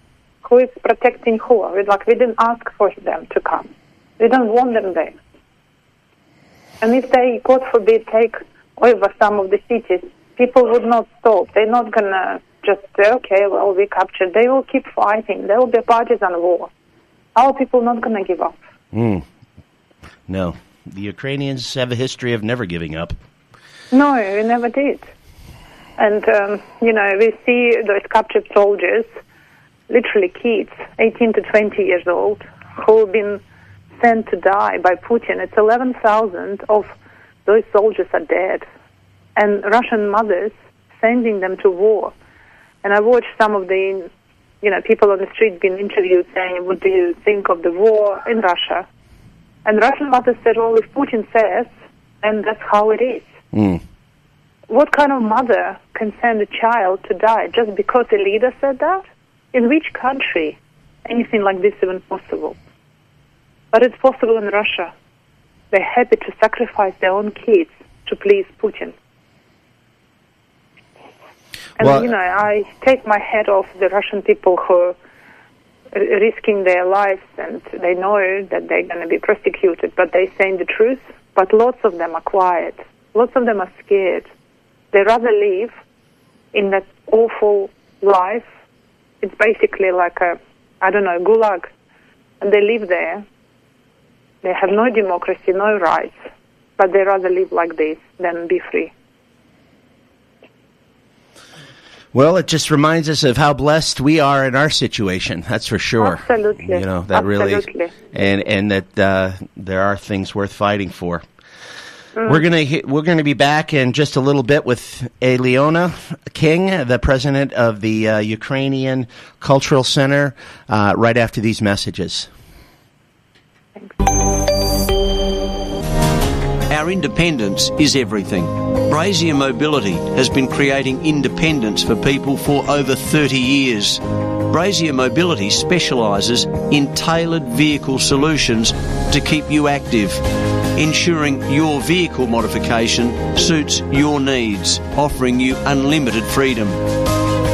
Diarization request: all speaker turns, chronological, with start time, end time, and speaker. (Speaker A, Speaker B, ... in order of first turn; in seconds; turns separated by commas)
Speaker A: 0.4-5.2, Speaker A: 6.8-16.7, Speaker A: 17.4-18.5, Speaker B: 18.9-19.2, Speaker B: 20.3-23.1, Speaker A: 23.9-25.1, Speaker A: 26.0-29.1, Speaker A: 29.9-33.4, Speaker A: 34.0-36.9, Speaker A: 37.5-38.6, Speaker A: 39.4-42.1, Speaker A: 42.8-44.1, Speaker A: 44.6-48.9, Speaker A: 49.6-51.7, Speaker A: 52.2-53.3, Speaker B: 53.5-53.8, Speaker A: 54.7-62.5, Speaker A: 63.7-64.9, Speaker A: 65.7-68.9, Speaker A: 71.8-74.9, Speaker B: 71.8-72.1, Speaker A: 75.9-84.3, Speaker A: 84.9-85.7, Speaker A: 86.5-88.5, Speaker A: 89.2-91.7, Speaker A: 92.4-93.2, Speaker A: 94.4-96.2, Speaker A: 96.8-98.9, Speaker B: 102.1-111.2, Speaker A: 106.0-108.0, Speaker A: 112.2-112.4, Speaker B: 112.2-122.3, Speaker C: 126.7-146.8